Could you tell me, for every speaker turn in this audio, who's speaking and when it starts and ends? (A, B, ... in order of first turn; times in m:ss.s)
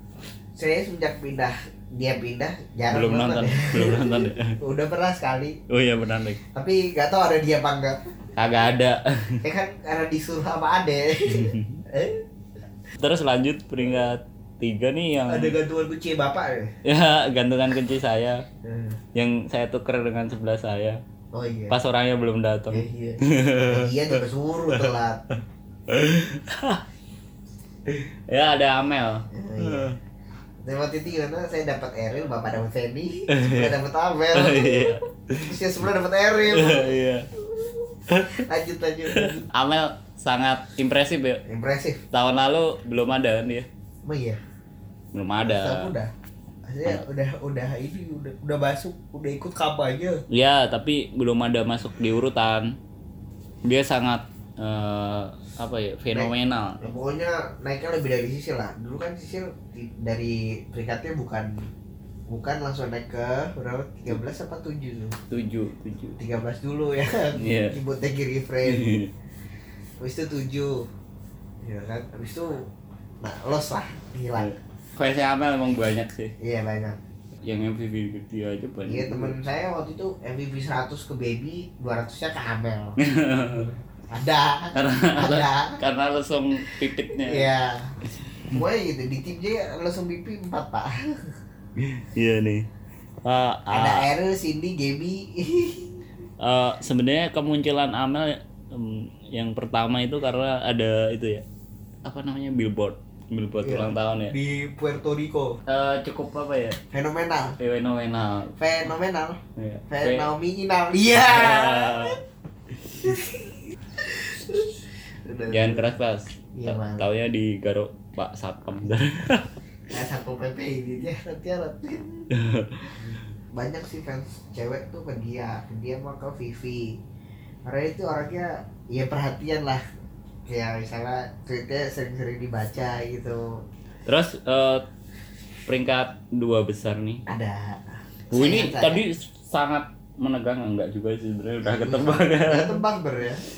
0:00.6-0:05.6 A
0:02.9-0:04.6 B
0:05.7-0:06.4 B
0:06.5-0:08.1 A
0:08.4-0:09.4 B
0:09.4-0:12.2 A
0:11.3-0:11.8 B
0:13.0-0:15.6 B
0:15.3-0:16.7 A
0:16.8-0:18.4 B
0:18.6-0:19.0 A
0:19.2-0:21.0 B
0:21.3-0:21.8 A
0:21.7-0:24.9 B
0:22.7-0:25.2 A
0:25.9-0:26.8 B
0:27.9-0:30.0 B
0:29.3-0:29.9 A
0:30.6-0:36.9 A
0:33.3-0:33.8 B
0:34.3-0:35.5 B
0:36.4-0:37.3 B
0:37.5-0:39.5 A
0:38.1-0:38.4 B
0:39.1-0:41.4 B
0:41.4-0:42.0 A
0:42.1-0:43.7 B
0:44.0-0:44.4 A
0:45.1-0:45.9 B
0:45.4-0:46.1 A
0:46.7-0:50.2 A
0:50.3-0:52.8 B
0:53.6-0:56.9 B
0:56.1-1:01.7 A
1:02.3-1:05.2 A
1:05.3-1:06.2 B
1:06.2-1:08.9 A
1:07.3-1:07.8 B
1:08.6-1:09.1 B
1:10.0-1:10.9 A
1:11.6-1:12.7 A
1:13.2-1:14.6 A
1:14.4-1:16.4 B
1:16.4-1:17.0 A
1:17.4-1:19.4 B
1:18.9-1:23.0 A
1:23.0-1:23.7 B
1:24.1-1:25.8 A
1:24.7-1:27.5 B
1:27.2-1:28.0 A
1:28.5-1:31.3 A
1:31.8-1:32.7 B
1:33.2-1:34.1 B
1:33.7-1:36.0 A
1:36.4-1:41.4 B
1:42.0-1:44.4 B
1:43.6-1:45.6 A
1:45.7-1:46.8 B
1:46.9-1:47.6 A
1:47.6-1:48.6 B
1:48.6-1:52.2 A
1:49.6-1:50.3 B
1:51.1-1:52.2 B
1:53.0-1:55.9 A
1:55.5-1:59.5 B
1:56.5-1:57.1 A
1:59.9-2:02.3 A
2:02.3-2:03.0 B
2:03.0-2:07.0 A
2:07.7-2:09.8 A
2:10.5-2:13.6 A
2:14.1-2:14.8 B
2:15.7-2:17.2 B
2:17.3-2:19.0 A
2:18.3-2:22.8 B
2:21.6-2:23.4 A